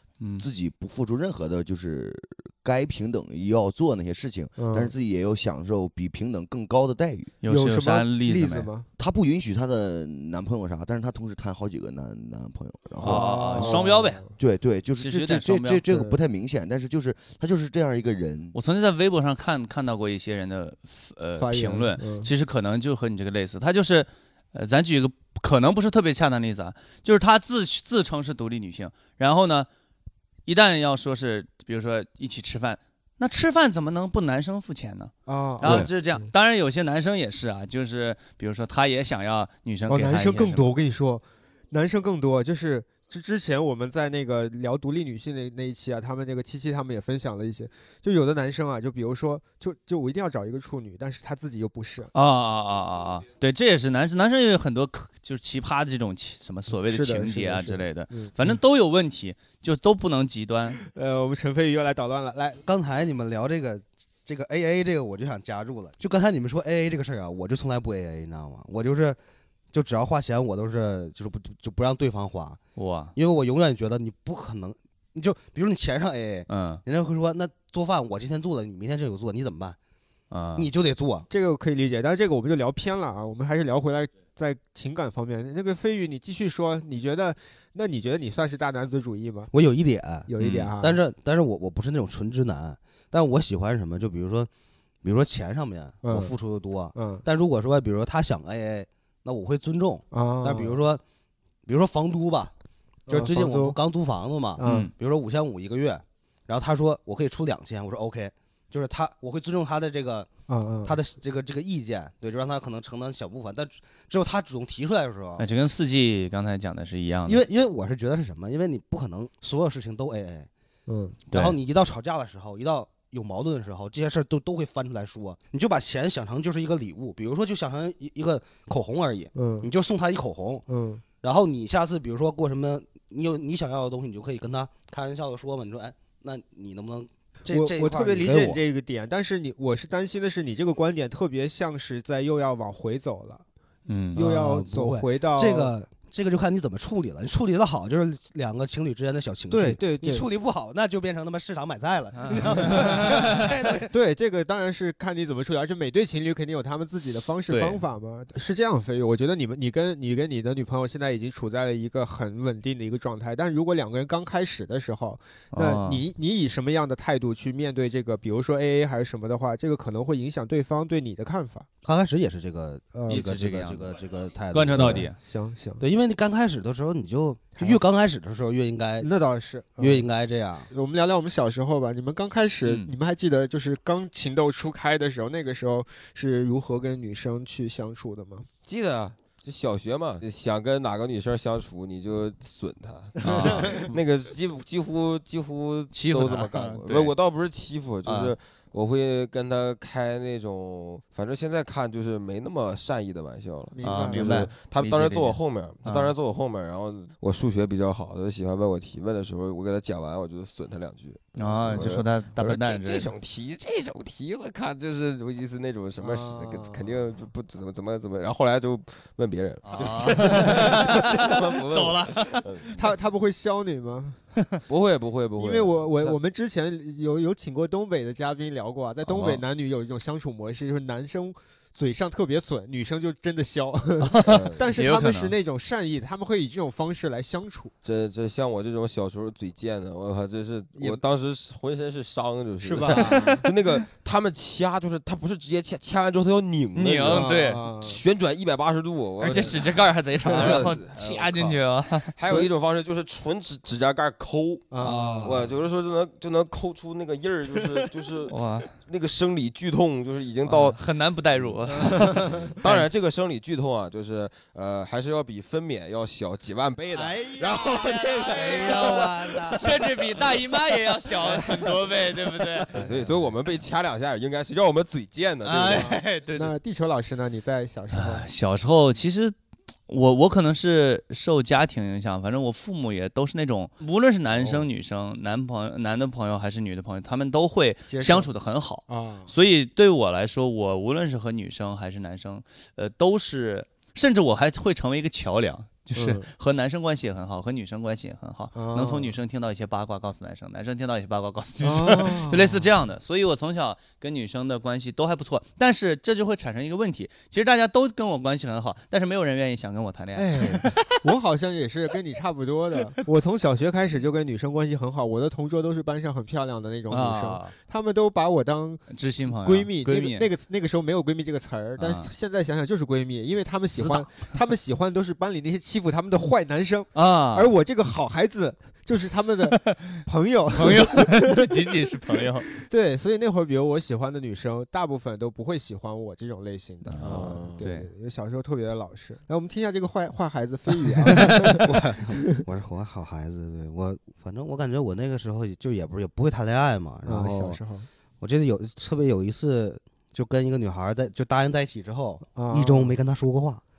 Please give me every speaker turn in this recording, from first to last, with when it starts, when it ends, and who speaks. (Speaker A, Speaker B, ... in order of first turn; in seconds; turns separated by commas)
Speaker A: 0.2-0.5, Speaker B: 0.4-7.3, Speaker C: 4.6-4.9, Speaker A: 7.4-8.7, Speaker C: 7.4-8.9, Speaker B: 9.0-18.5, Speaker C: 13.0-14.3, Speaker A: 13.0-14.2, Speaker A: 15.0-15.8, Speaker C: 15.9-16.2, Speaker A: 18.5-29.7, Speaker C: 21.4-22.3, Speaker A: 30.5-40.7, Speaker C: 35.2-35.9, Speaker B: 35.6-35.9, Speaker C: 39.9-52.1, Speaker A: 52.1-60.8, Speaker C: 56.7-58.5, Speaker C: 60.8-62.6, Speaker D: 62.6-69.2, Speaker D: 69.7-72.6, Speaker A: 72.8-73.1, Speaker D: 73.1-79.8, Speaker A: 76.5-76.8, Speaker A: 80.3-80.7, Speaker D: 80.5-81.3, Speaker C: 81.3-89.5, Speaker D: 89.5-94.5, Speaker C: 90.2-91.0, Speaker A: 90.4-90.7, Speaker D: 95.0-101.0, Speaker C: 96.0-96.3, Speaker C: 96.9-97.2, Speaker C: 100.1-100.8, Speaker D: 101.7-102.5, Speaker C: 103.1-103.8, Speaker D: 103.1-110.3, Speaker C: 104.6-104.9, Speaker A: 104.6-104.9, Speaker C: 110.5-111.0, Speaker D: 110.8-115.4, Speaker A: 115.4-117.4, Speaker D: 117.3-120.5, Speaker C: 120.9-121.2, Speaker D: 121.3-130.6, Speaker C: 129.3-129.7, Speaker C: 130.7-131.0, Speaker D: 131.2-138.6, Speaker C: 137.5-143.4, Speaker A: 143.9-144.2, Speaker C: 144.1-145.7, Speaker D: 144.1-153.9, Speaker C: 149.5-150.3, Speaker A: 152.2-153.4, Speaker C: 152.4-171.7, Speaker A: 157.5-157.8, Speaker A: 165.5-166.0, Speaker D: 171.8-175.1, Speaker C: 172.9-173.3, Speaker A: 173.1-173.9, Speaker A: 174.5-175.2, Speaker C: 174.7-175.8, Speaker D: 175.8-179.1, Speaker C: 179.0-180.1, Speaker D: 179.8-180.7, Speaker C: 180.7-188.5, Speaker A: 182.6-182.9, Speaker E: 188.7-222.7, Speaker A: 193.2-193.8, Speaker C: 193.3-193.9, Speaker A: 195.9-197.1, Speaker A: 198.1-198.3, Speaker C: 203.7-204.5, Speaker A: 203.8-206.1, Speaker A: 211.4-213.1, Speaker C: 211.6-212.0, Speaker C: 216.0-217.0, Speaker A: 219.7-222.4, Speaker C: 220.1-220.7, Speaker C: 222.7-224.2, Speaker E: 224.7-226.2, Speaker C: 225.4-237.7, Speaker E: 229.0-229.4, Speaker A: 234.0-235.3, Speaker E: 234.2-234.6, Speaker E: 237.8-251.6, Speaker C: 240.8-241.0, Speaker C: 242.6-243.4, Speaker A: 242.8-243.5, Speaker A: 246.7-247.6, Speaker C: 247.1-248.0, Speaker A: 249.2-252.1, Speaker C: 250.2-250.7, Speaker E: 252.2-260.8, Speaker C: 252.2-252.5, Speaker C: 254.7-255.5, Speaker A: 254.8-255.4, Speaker A: 258.3-258.7, Speaker A: 260.4-262.8, Speaker E: 261.4-269.4, Speaker C: 261.8-262.5, Speaker D: 267.2-269.7, Speaker A: 267.4-272.7, Speaker E: 272.7-275.9, Speaker C: 272.7-273.2, Speaker A: 275.4-276.5, Speaker C: 275.7-278.3, Speaker A: 277.9-279.4, Speaker A: 279.9-310.9, Speaker C: 284.4-284.6, Speaker C: 287.9-288.3, Speaker C: 288.9-289.3, Speaker C: 295.9-296.3, Speaker C: 298.5-299.1, Speaker C: 301.6-302.7, Speaker C: 310.1-331.6, Speaker A: 316.9-317.5, Speaker A: 318.9-320.3, Speaker A: 321.8-322.1, Speaker A: 323.7-324.1, Speaker A: 326.9-327.5, Speaker A: 330.6-332.5, Speaker C: 332.5-341.7, Speaker A: 336.9-337.9, Speaker E: 337.0-337.6, Speaker D: 341.1-347.6, Speaker C: 347.1-347.9, Speaker D: 348.2-353.6, Speaker C: 352.3-353.0